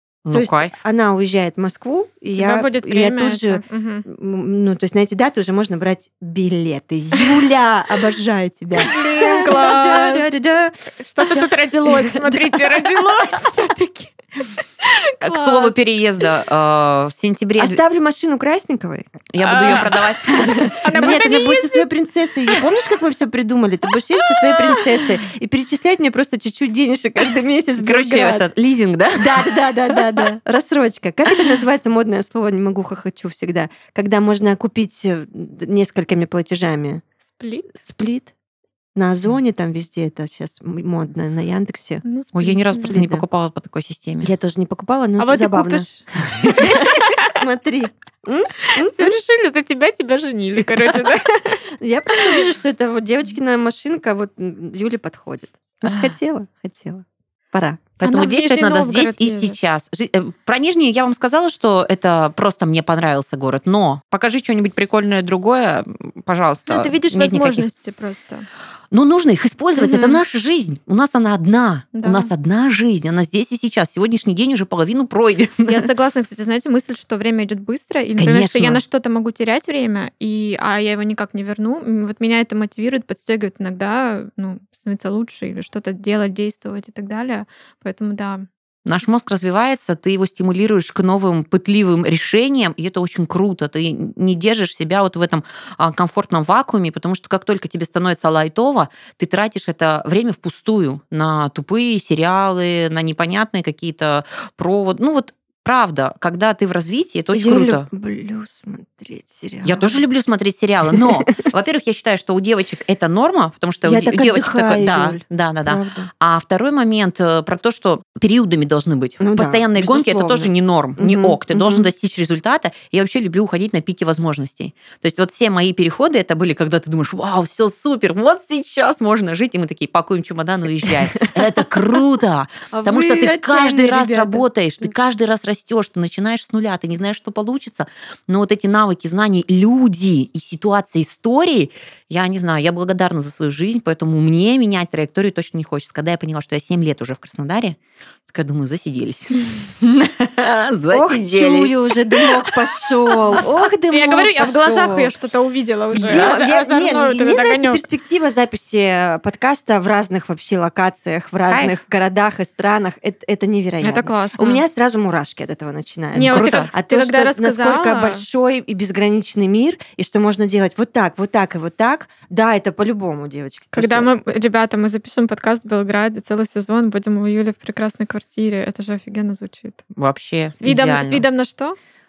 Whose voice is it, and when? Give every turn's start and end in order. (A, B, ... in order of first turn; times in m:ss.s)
0:00.2-0:00.8 A
0:00.3-0:13.1 B
0:02.3-0:04.1 C
0:08.8-0:10.3 C
0:11.0-0:15.8 C
0:15.2-0:17.8 A
0:17.6-0:28.5 B
0:19.3-0:20.8 A
0:19.4-0:20.2 C
0:20.8-0:21.9 C
0:24.2-0:24.9 C
0:27.8-0:30.1 A
0:29.2-0:37.0 B
0:37.3-0:37.7 C
0:37.7-0:38.3 B
0:39.0-0:42.0 B
0:42.0-0:43.0 C
0:42.3-0:44.3 A
0:42.8-0:43.2 B
0:44.2-0:46.0 B
0:45.2-0:45.9 C
0:46.4-0:46.6 A
0:46.6-0:47.4 C
0:46.6-0:49.2 B
0:48.6-0:51.6 C
0:51.8-0:57.9 B
0:52.2-0:52.5 C
0:58.0-1:07.7 A
0:58.0-0:59.6 C
1:06.7-1:08.5 C
1:08.9-1:15.9 A
1:09.8-1:10.2 C
1:11.9-1:12.3 C
1:15.7-1:28.5 C
1:18.2-1:18.8 A
1:28.8-1:47.9 A
1:47.3-1:49.9 B
1:49.6-2:27.8 A
1:53.8-1:56.1 B
1:59.2-2:01.9 B
2:12.7-2:14.9 B
2:28.3-2:32.6 A
2:30.9-2:35.1 B
2:33.9-2:37.8 C
2:35.9-2:54.1 B
2:41.5-2:41.8 A
2:43.8-2:44.6 C
2:46.1-2:48.2 C
2:46.2-2:46.7 A
2:53.7-2:59.8 C
3:00.0-3:01.3 A
3:00.6-3:01.8 C